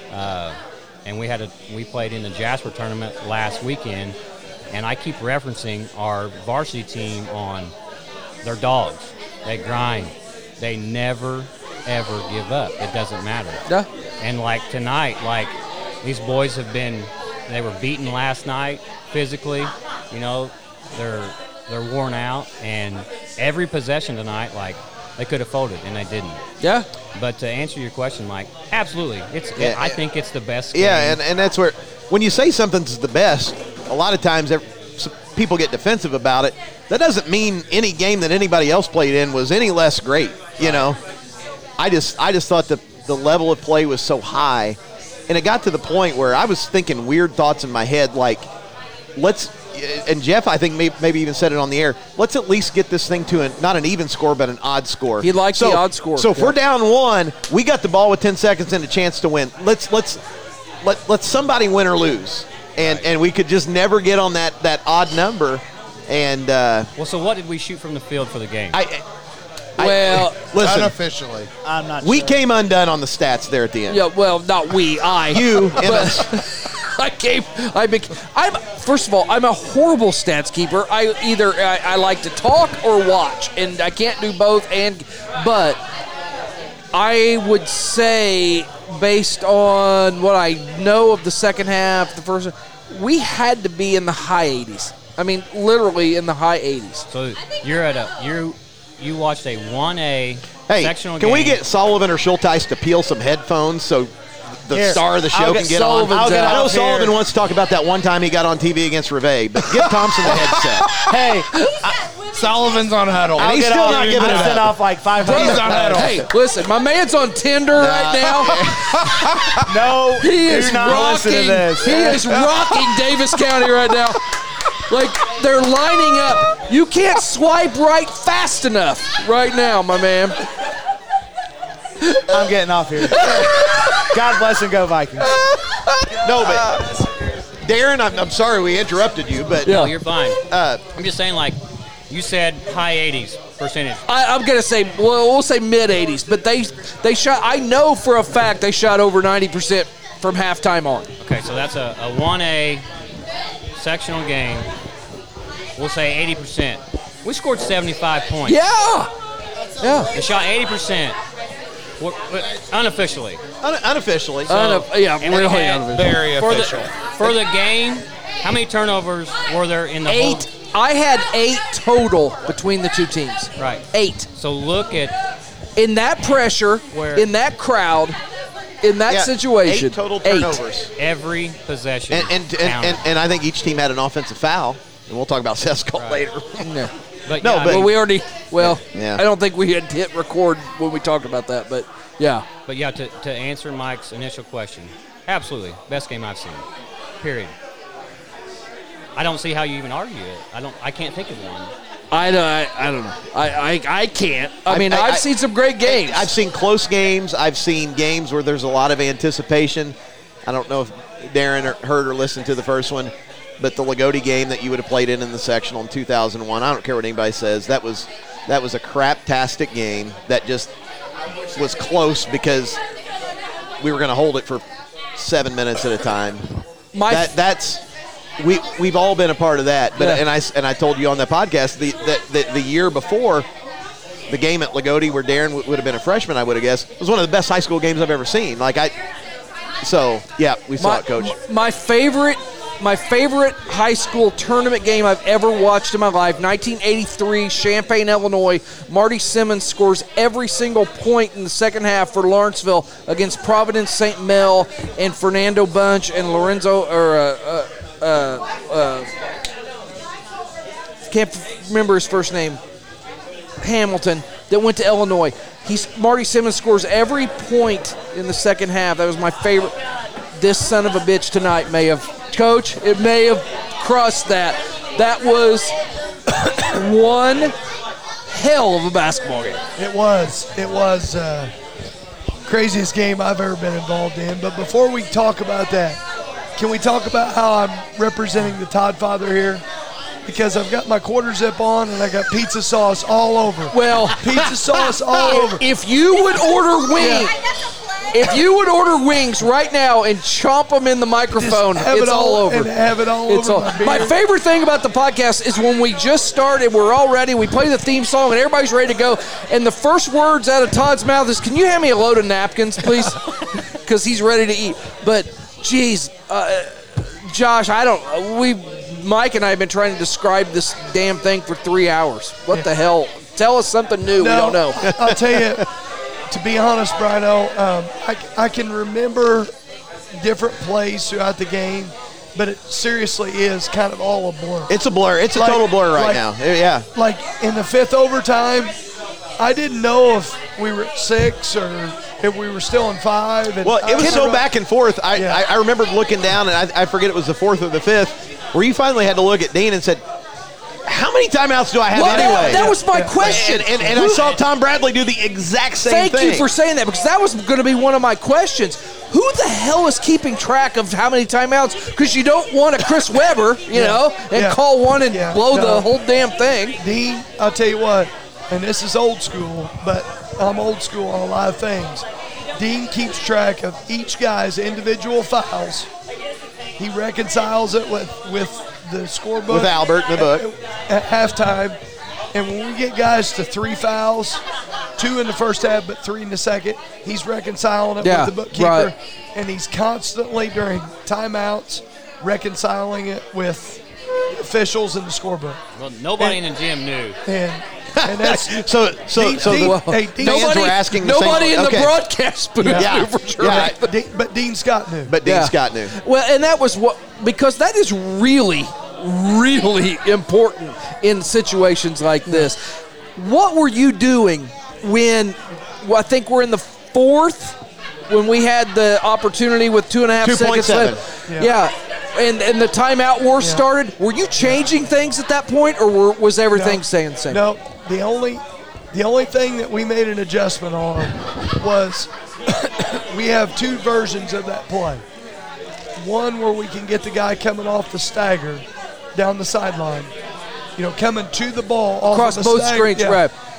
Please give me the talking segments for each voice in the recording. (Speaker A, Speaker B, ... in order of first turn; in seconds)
Speaker A: 0.1-4.2, 4.7-7.7, 8.4-13.6, 14.2-26.4, 27.1-31.2, 67.0-68.8, 97.1-101.6, 139.7-140.4, 140.9-141.6, 142.1-144.0, 151.2-152.8, 153.8-154.7, 155.8-158.6, 160.1-161.2, 162.0-163.4, 164.5-170.5, 173.6-175.1, 176.9-177.3, 181.0-183.0, 185.9-186.3, 187.3-187.9, 192.7-196.7, 197.2-197.5, 199.2-201.7, 395.7-397.2
Speaker B: 26.6-26.9, 55.2-56.6, 69.8-70.4, 73.9-85.8, 86.9-97.0, 105.4-106.7, 115.2-118.5, 120.2-124.2, 124.9-130.4, 133.0-134.2, 135.8-136.8, 139.6-139.9, 144.1-151.1, 158.4-159.1, 159.8-160.1, 164.5-166.2, 170.1-174.3, 175.8-178.2, 178.8-180.6, 186.6-186.9, 187.6-192.4, 202.1-206.3, 226.9-227.3, 230.0-230.2, 240.8-259.1, 261.1-262.6, 263.6-269.7, 270.3-275.7, 276.4-277.5, 278.3-279.6, 293.7-294.2, 295.1-297.3, 298.1-302.7, 303.3-313.2, 313.8-324.8, 344.0-344.2, 351.9-354.2, 355.9-366.8, 388.0-388.9, 399.4-403.9, 405.2-417.6, 418.1-427.4, 442.1-443.3
Speaker C: 29.6-30.0, 30.7-41.0, 41.8-48.5, 49.1-60.2, 60.8-66.9, 68.7-69.0, 69.8-70.9, 72.0-74.0, 75.3-76.3, 100.7-111.5, 113.4-114.7, 117.8-118.6, 136.2-136.8, 137.6-139.9, 140.5-140.8, 163.6-164.6, 179.1-180.9, 182.1-186.8, 187.4-187.9, 188.6-189.2, 204.7-205.2, 205.8-220.7, 221.5-222.8, 223.8-224.6, 225.2-226.4, 227.1-227.8, 228.4-233.5, 234.3-238.9, 239.8-241.3, 324.8-325.6, 334.7-336.9, 343.6-350.0, 350.9-356.5, 379.5-380.5, 397.9-401.9, 402.7-403.8, 405.0-405.9, 420.2-421.0
Speaker D: 70.5-71.5, 109.8-111.2, 112.3-116.3, 118.4-119.7, 122.1-122.8, 159.8-160.1, 165.8-167.1
Speaker E: 71.6-72.4, 104.7-107.2, 113.4-116.2, 119.7-122.3, 132.3-135.4
Speaker F: 279.8-281.5, 282.4-286.0, 286.6-289.6, 290.2-295.6, 296.9-297.3, 301.3-304.1, 324.2-325.7, 326.3-329.5, 330.2-334.7, 335.3-336.2, 336.9-338.7, 339.4-344.4, 345.1-345.4, 352.0-353.3, 363.7-365.9, 366.8-372.0, 372.6-375.9, 376.8-381.8, 382.3-384.4, 385.0-393.8, 394.3-395.6, 397.3-400.5, 402.6-405.1, 423.4-423.6, 426.5-428.4, 428.9-435.0, 436.0-440.1, 440.8-443.2